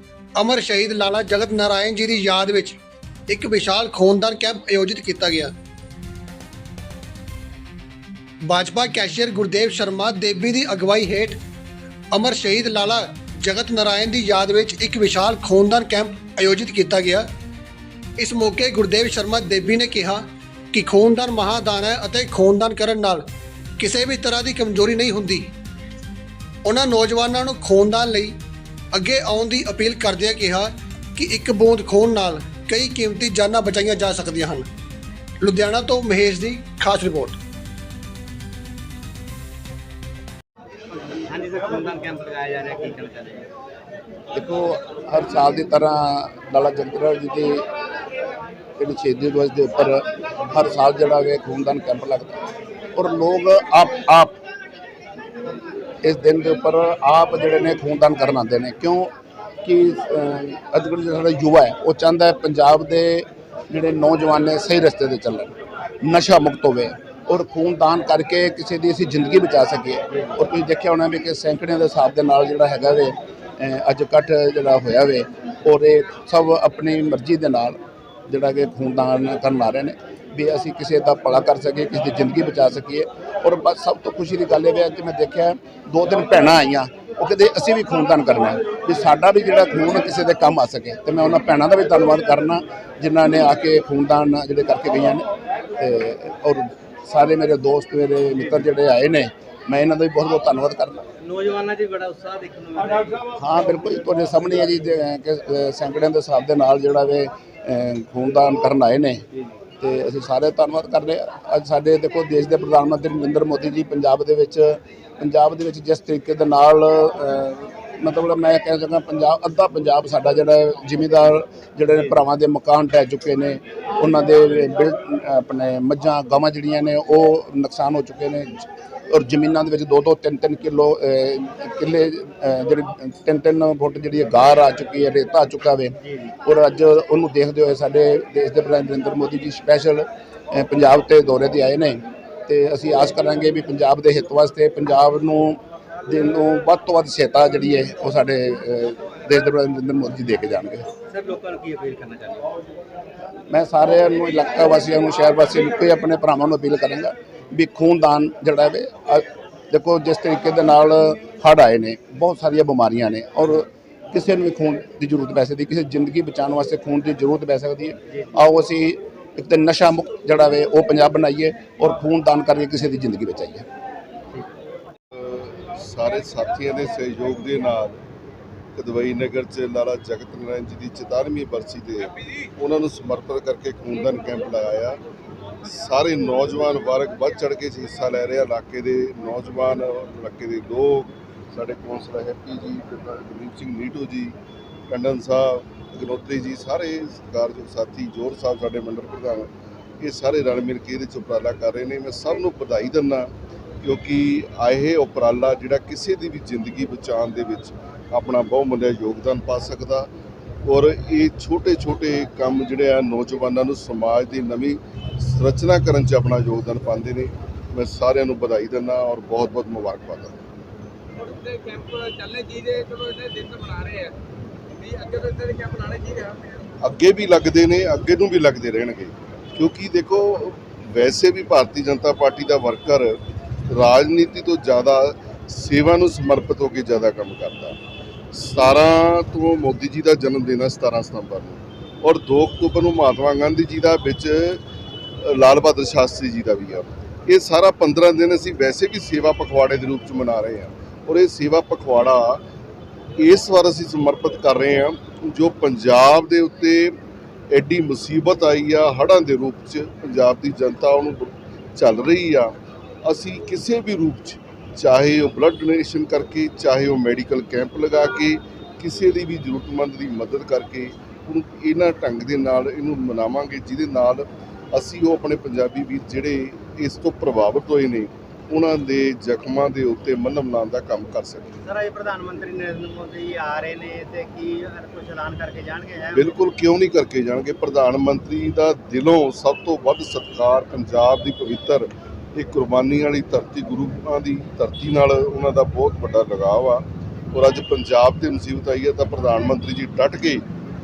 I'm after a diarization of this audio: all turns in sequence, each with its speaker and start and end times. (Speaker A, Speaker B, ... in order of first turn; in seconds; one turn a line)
Speaker A: 0.4-5.5
Speaker A: 8.4-11.4
Speaker A: 12.1-17.3
Speaker A: 18.2-23.2
Speaker A: 23.8-25.5
Speaker A: 26.6-28.3
Speaker A: 28.9-34.7
Speaker A: 35.4-37.4
Speaker B: 41.2-43.5
Speaker C: 44.3-47.6
Speaker C: 48.8-52.4
Speaker C: 52.9-54.3
Speaker C: 56.0-59.1
Speaker C: 59.6-77.8
Speaker C: 78.3-95.2
Speaker C: 95.8-101.0
Speaker B: 101.2-103.3
Speaker C: 103.3-109.2
Speaker C: 109.8-150.8
Speaker B: 151.1-152.5
Speaker C: 153.5-173.6
Speaker D: 175.1-178.0
Speaker D: 178.7-185.0
Speaker D: 185.6-194.3
Speaker D: 194.9-199.5
Speaker D: 200.0-210.1
Speaker D: 210.6-220.3
Speaker E: 221.2-224.1
Speaker E: 224.8-226.6
Speaker D: 226.8-237.8
Speaker D: 238.3-244.6
Speaker D: 245.2-252.4
Speaker D: 253.2-257.0
Speaker D: 257.5-262.5
Speaker D: 263.0-281.5
Speaker B: 281.6-286.3
Speaker D: 286.1-300.4